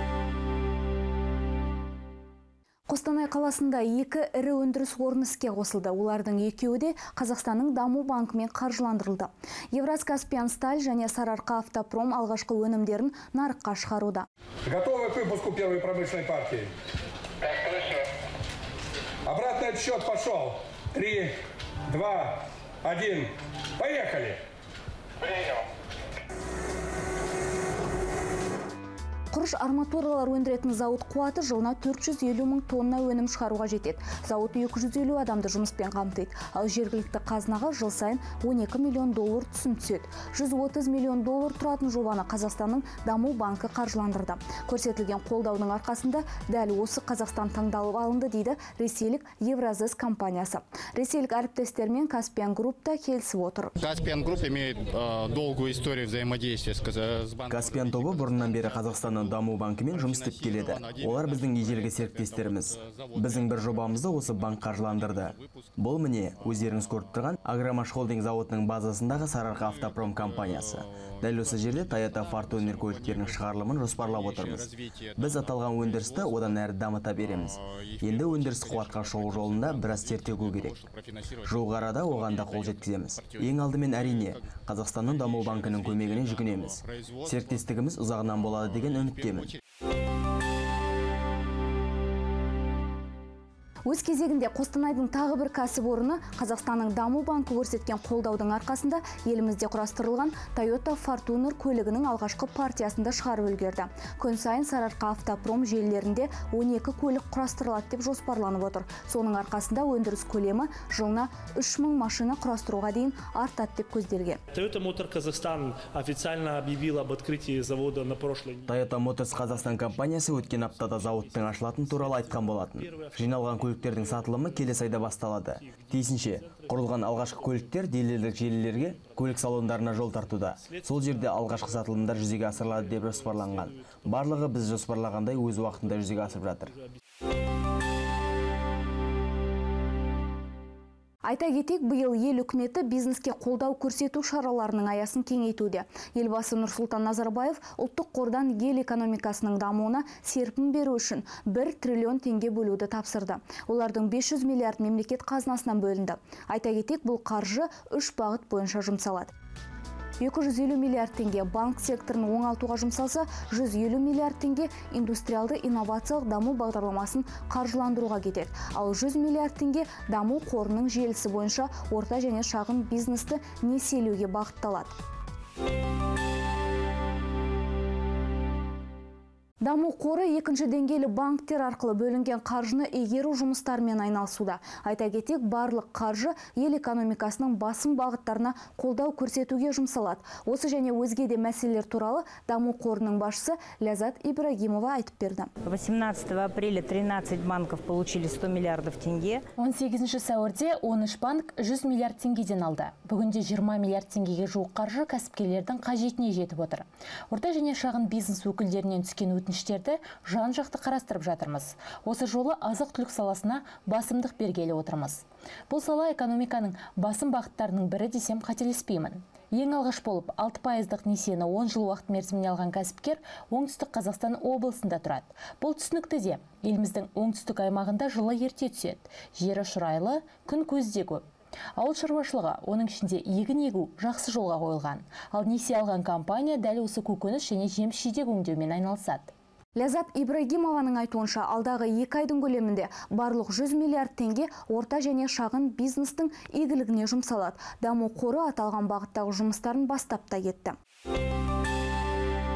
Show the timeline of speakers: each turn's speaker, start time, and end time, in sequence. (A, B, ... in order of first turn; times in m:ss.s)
0:02.9-0:14.3 A
0:14.7-0:16.7 B
0:17.4-0:18.1 B
0:19.3-0:24.4 B
0:25.3-0:25.6 B
0:29.3-0:53.7 A
0:53.8-1:07.4 C
0:57.5-1:20.8 D
1:09.5-1:29.6 C
1:21.4-1:29.5 D
1:33.9-1:54.4 A
1:54.5-2:17.0 E
1:58.7-2:16.7 D
2:21.2-2:39.3 A
2:40.2-2:55.0 A
2:59.6-3:15.5 A
3:15.6-3:19.4 F
3:19.6-3:51.2 G
3:51.8-3:59.3 G
3:59.8-4:10.8 A